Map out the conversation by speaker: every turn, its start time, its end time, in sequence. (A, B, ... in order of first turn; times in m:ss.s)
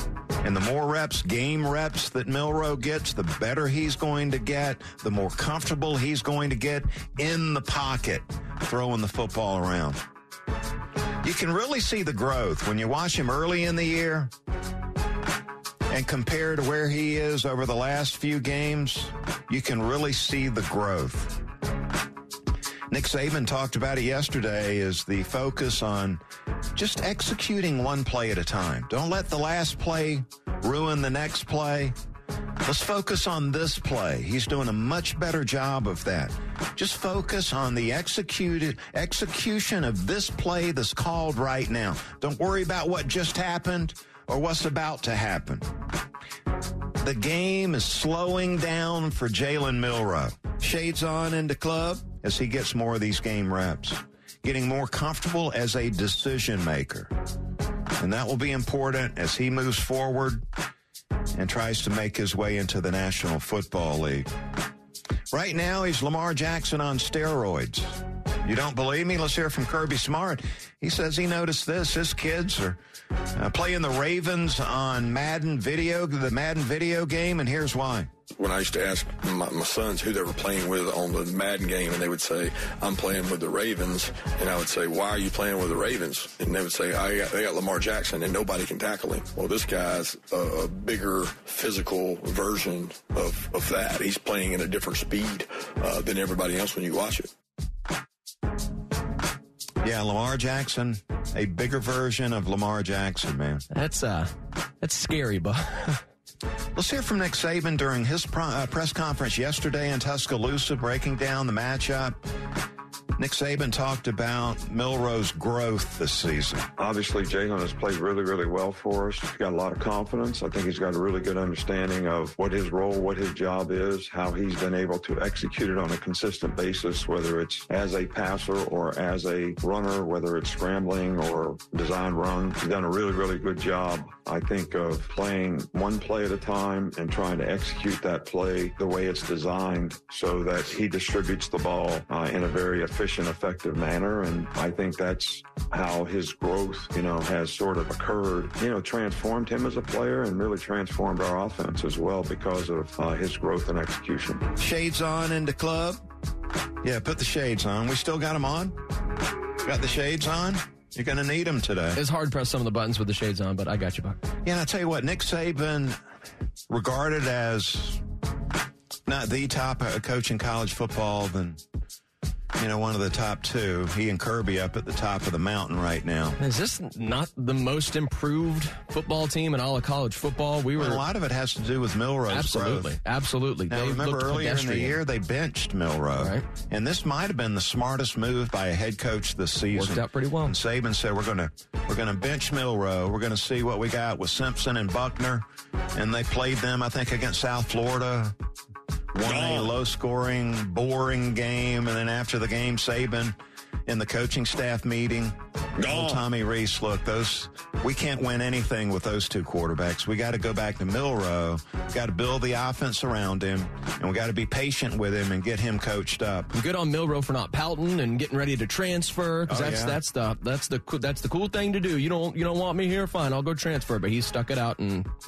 0:00.4-0:10.0 A
0:11.2-0:14.3 A
0:15.9-0:21.4 A
0:22.9-0:26.2 A
0:26.7-0:32.0 A
0:32.6-0:45.7 A
0:47.0-0:57.1 A
0:58.0-1:00.4 A
1:01.3-1:04.3 A
1:05.3-1:12.8 A
1:13.3-1:18.1 A
1:18.4-1:37.3 B
1:39.8-1:43.6 A
1:43.7-1:46.0 C
1:46.7-1:52.2 A
1:53.2-1:56.7 A
1:56.8-2:34.5 D
2:34.6-2:36.0 A
2:36.8-2:38.8 A
2:39.6-2:42.0 A
2:42.0-2:44.2 C
2:44.4-2:46.0 A
2:46.7-2:48.0 A
2:49.0-2:51.6 A
2:52.6-2:56.4 A
2:56.4-3:01.0 C
3:00.8-3:03.0 A
3:02.3-3:05.0 C
3:03.7-3:18.4 A
3:06.2-3:06.4 C
3:09.7-3:10.5 C
3:19.1-3:36.5 A
3:19.2-3:19.7 B
3:25.8-3:26.2 B
3:36.5-3:45.1 C
3:39.5-3:40.0 A